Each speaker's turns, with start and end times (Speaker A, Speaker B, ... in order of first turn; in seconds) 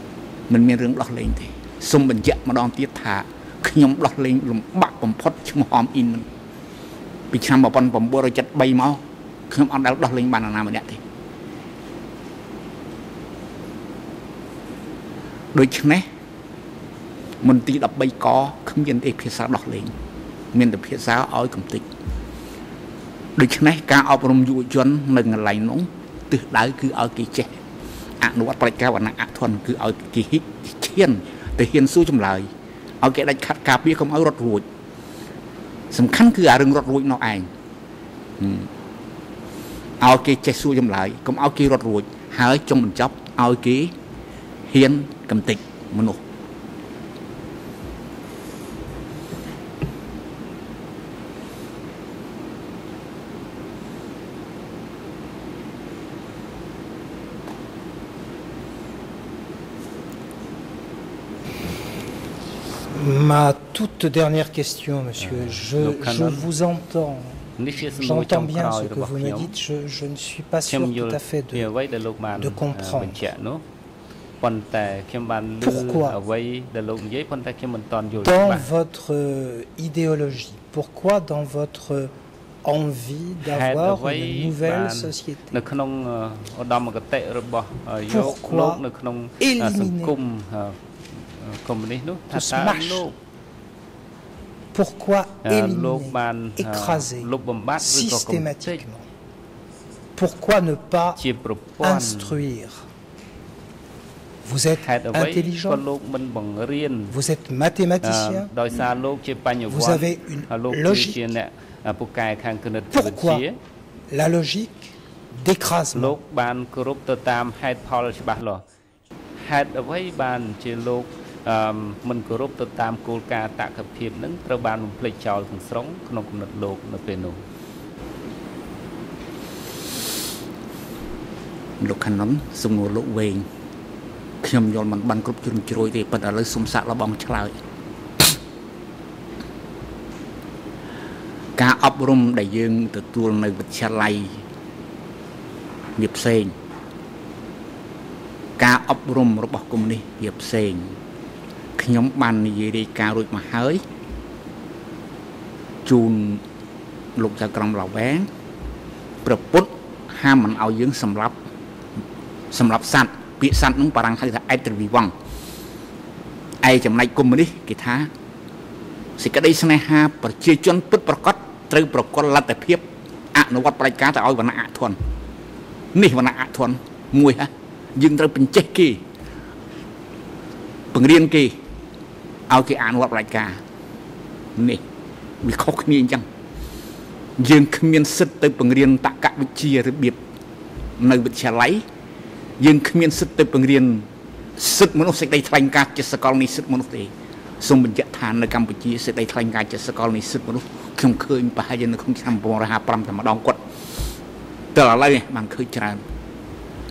Speaker A: 0.5-6.3, 7.3-11.0, 15.5-16.1, 17.4-19.9, 20.5-21.9, 23.4-27.6, 28.2-32.5, 33.0-34.6, 35.9-37.5, 38.4-38.7, 40.0-43.9, 44.7-46.2, 131.8-133.5, 134.4-137.5, 141.6-144.3, 146.0-146.5, 148.6-150.9, 151.8-153.8, 155.8-156.4, 157.2-158.3, 159.2-161.3, 162.5-165.1, 166.6-168.1, 169.2-175.0, 175.9-179.0, 180.9-181.6, 182.5-183.6, 184.6-184.8, 185.4-186.2, 187.4-190.2, 191.0-191.8, 192.6-194.1, 194.6-203.6, 204.7-206.0
Speaker B: 62.9-71.7, 72.4-73.2, 75.6-76.2, 78.2-82.1, 82.6-85.6, 88.1-88.8, 89.4-90.1, 92.3-93.1, 94.7-99.0, 100.2-101.2, 101.8-102.8, 104.4-105.8, 107.1-108.5, 109.7-111.2, 112.9-113.4, 114.1-116.2
Speaker C: 65.2-66.5, 67.6-69.5, 70.7-73.6, 74.4-78.7, 83.4-93.1, 95.4-98.8, 101.2-102.4, 104.8-107.2, 108.0-113.6, 115.9-118.6, 119.4-127.4